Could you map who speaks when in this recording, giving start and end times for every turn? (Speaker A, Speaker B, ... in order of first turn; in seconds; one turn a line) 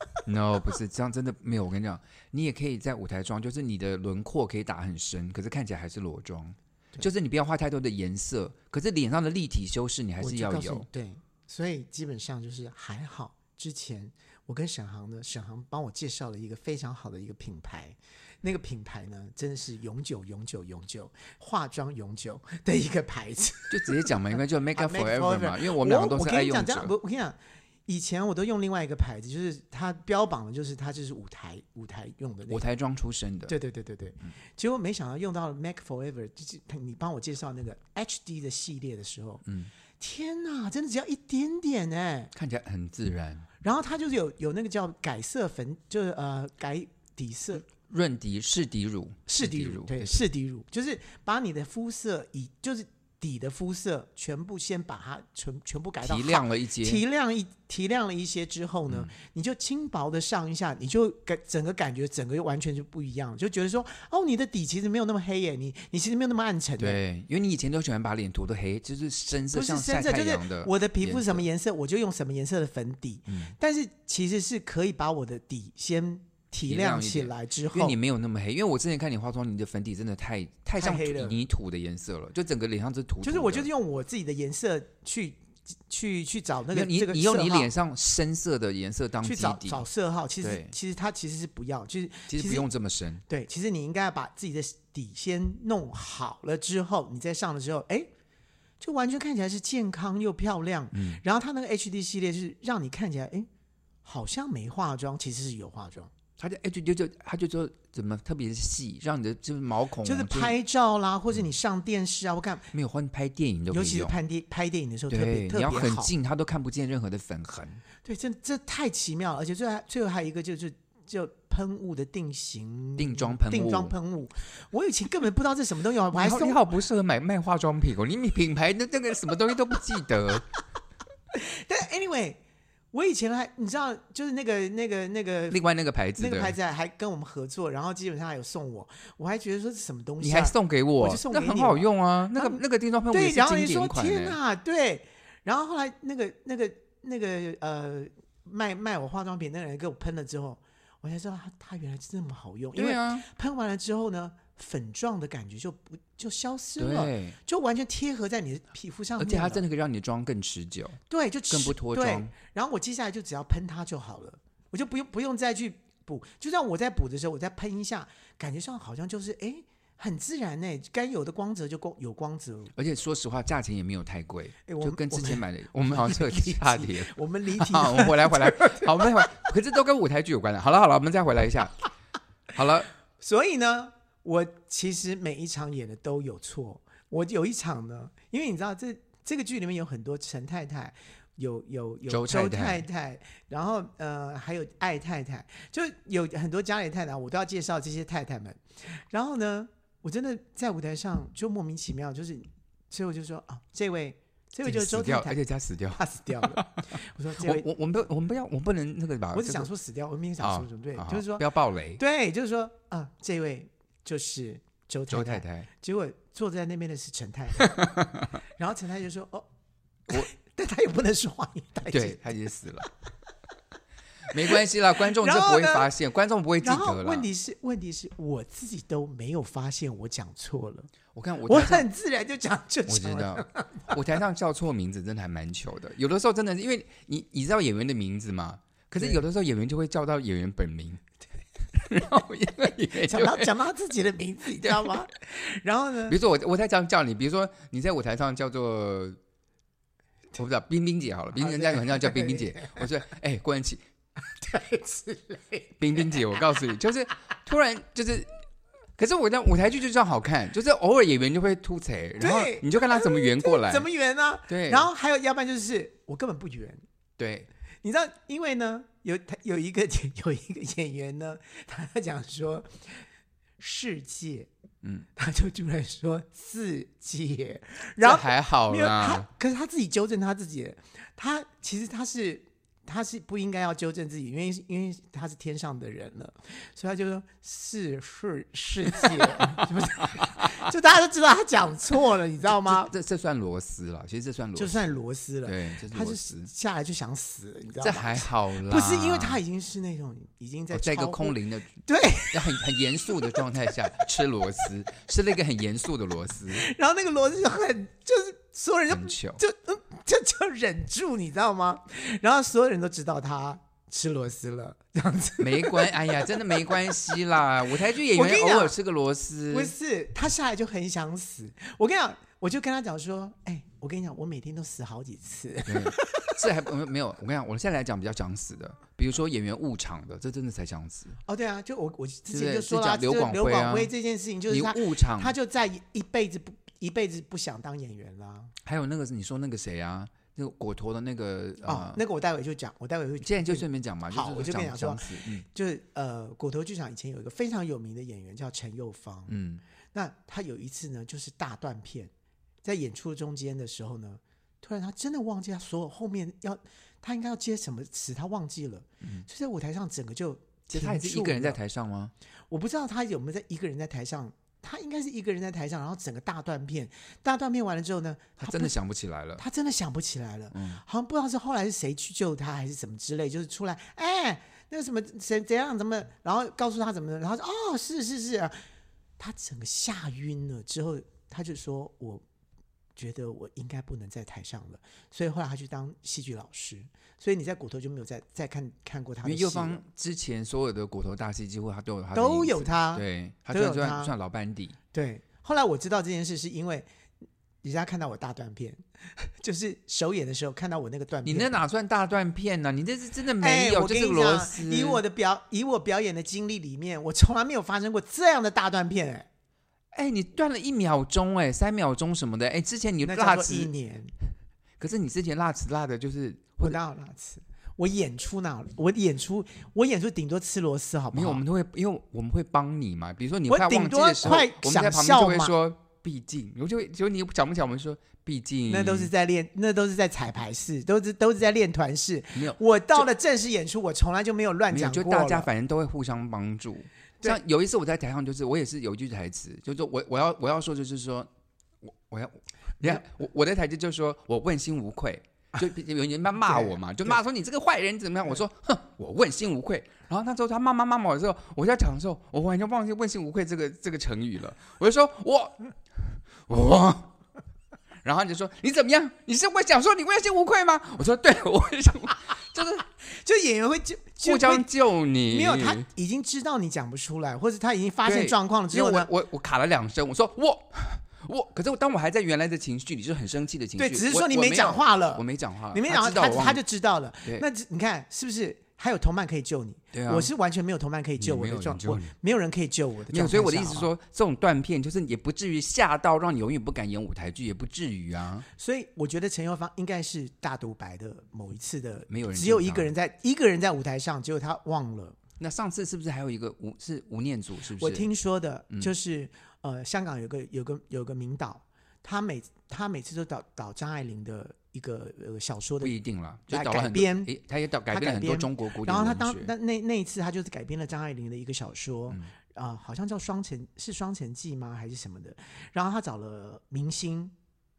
Speaker A: 0.2-10.9
Speaker B: 10.2-24.1
Speaker A: 23.7-26.9
Speaker B: 24.8-32.6
Speaker A: 32.5-33.5
Speaker B: 33.5-39.4
Speaker A: 39.5-39.7
Speaker B: 40.0-42.3
Speaker A: 42.3-43.5
Speaker B: 43.6-47.6
Speaker A: 47.6-50.2
Speaker B: 49.3-67.0
Speaker A: 56.0-57.0
Speaker A: 66.8-71.5
Speaker B: 69.5-78.0
Speaker A: 73.3-73.5
Speaker A: 76.6-83.7
Speaker B: 80.8-81.4
Speaker B: 83.2-87.7
Speaker A: 86.7-89.9
Speaker B: 89.2-92.7
Speaker A: 90.4-90.7
Speaker A: 92.3-93.2
Speaker B: 93.3-98.1
Speaker B: 98.8-103.5
Speaker A: 100.9-101.2
Speaker B: 104.0-106.1
Speaker A: 106.4-110.6
Speaker B: 110.0-112.7
Speaker A: 112.7-114.2
Speaker B: 113.7-116.1
Speaker A: 115.1-117.8
Speaker B: 118.0-126.6
Speaker A: 123.0-124.0
Speaker A: 126.1-130.5
Speaker B: 131.3-132.4
Speaker B: 132.9-135.6
Speaker A: 135.5-136.6
Speaker B: 136.2-159.6
Speaker A: 140.2-144.4
Speaker A: 152.8-153.2
Speaker A: 156.8-157.4
Speaker A: 159.2-162.3
Speaker B: 161.1-172.7
Speaker A: 172.8-181.8
Speaker B: 174.7-179.4
Speaker A: 182.5-182.9
Speaker B: 183.2-205.4
Speaker A: 192.1-192.8
Speaker A: 204.6-209.7
Speaker B: 205.9-207.7
Speaker B: 209.3-218.0
Speaker A: 210.4-212.0
Speaker A: 215.1-215.7
Speaker A: 217.7-218.2
Speaker B: 218.5-219.5
Speaker B: 220.1-222.2
Speaker A: 221.9-222.9
Speaker A: 224.3-227.3
Speaker B: 224.4-225.9
Speaker B: 226.6-230.9
Speaker A: 231.1-231.9
Speaker B: 231.5-234.0
Speaker A: 232.9-241.0
Speaker A: 241.7-243.5
Speaker B: 242.9-246.2
Speaker A: 244.6-245.0
Speaker A: 246.1-249.2
Speaker A: 250.3-253.8
Speaker B: 251.4-252.8
Speaker B: 254.3-255.8
Speaker A: 255.8-258.3
Speaker A: 259.0-263.9
Speaker B: 262.2-266.8
Speaker A: 264.5-264.9
Speaker A: 267.2-267.5
Speaker B: 267.8-273.1
Speaker B: 273.6-274.5
Speaker B: 275.2-292.9
Speaker A: 278.0-279.3
Speaker A: 289.0-290.5
Speaker A: 292.6-294.9
Speaker B: 294.6-302.7
Speaker A: 295.4-296.5
Speaker A: 297.8-299.4
Speaker A: 300.7-306.6
Speaker B: 306.5-315.9
Speaker A: 308.9-309.4
Speaker A: 315.4-319.7
Speaker B: 318.1-318.8
Speaker B: 319.5-326.4
Speaker A: 325.7-331.2
Speaker B: 331.3-338.5
Speaker A: 332.3-333.9
Speaker A: 334.5-335.4
Speaker A: 338.6-342.0
Speaker B: 341.6-349.4
Speaker A: 343.2-345.4
Speaker A: 349.3-349.6
Speaker B: 349.9-352.1
Speaker B: 352.6-361.6
Speaker A: 360.7-362.1
Speaker B: 362.5-368.8
Speaker A: 368.4-369.4
Speaker B: 369.4-378.6
Speaker A: 370.5-370.8
Speaker B: 379.2-382.2
Speaker B: 383.0-389.8
Speaker A: 389.2-394.8
Speaker B: 392.1-394.1
Speaker B: 394.9-396.9
Speaker B: 397.6-401.6
Speaker A: 401.2-405.0
Speaker B: 403.4-409.3
Speaker A: 409.9-413.7
Speaker B: 413.1-414.1
Speaker A: 414.8-416.8
Speaker B: 416.6-421.4
Speaker A: 421.1-429.1
Speaker B: 423.5-425.6
Speaker B: 428.7-435.5
Speaker A: 432.4-433.1
Speaker A: 434.7-441.3
Speaker A: 441.8-457.1
Speaker B: 446.4-446.8
Speaker A: 458.0-462.9
Speaker B: 463.1-464.7
Speaker A: 464.2-465.9
Speaker B: 465.3-469.1
Speaker A: 468.0-476.6
Speaker B: 473.8-483.9
Speaker A: 479.9-480.3
Speaker A: 481.2-482.1
Speaker A: 483.1-488.5
Speaker B: 488.6-495.2
Speaker A: 492.1-492.9
Speaker A: 495.4-498.1
Speaker B: 497.8-505.9
Speaker A: 505.8-509.5
Speaker B: 506.5-507.3
Speaker B: 507.9-517.3